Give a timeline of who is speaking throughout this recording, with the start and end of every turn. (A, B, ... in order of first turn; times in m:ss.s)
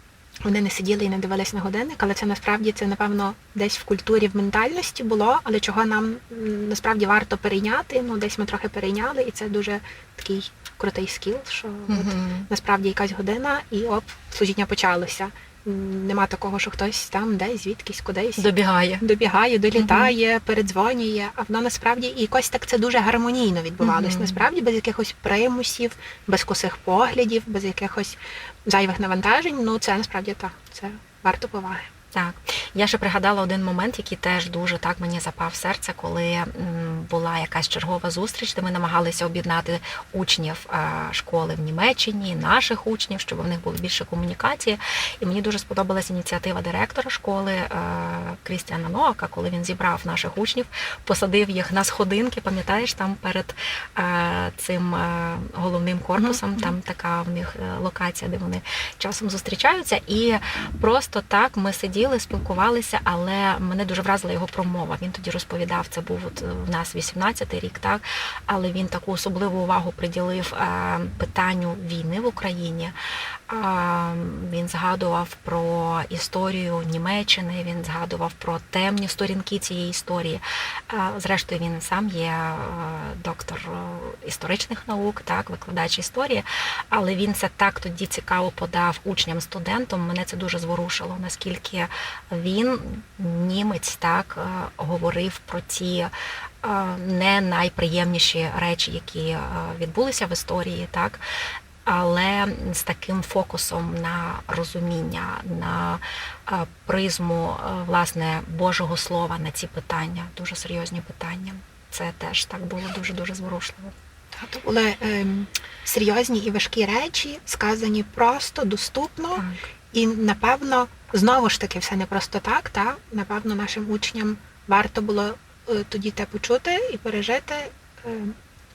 0:00.4-0:18.5 A
0:11.9-0:12.5 B
0:18.4-0:19.0 B
0:19.0-0:31.9 A
0:19.8-0:20.1 B
0:23.8-0:24.4 B
0:32.1-1:12.9 B
0:56.2-0:56.7 A
1:13.5-1:36.1 B
1:36.6-1:41.2 B
1:41.8-1:53.9 B
1:54.3-2:08.3 A
1:59.3-1:59.6 B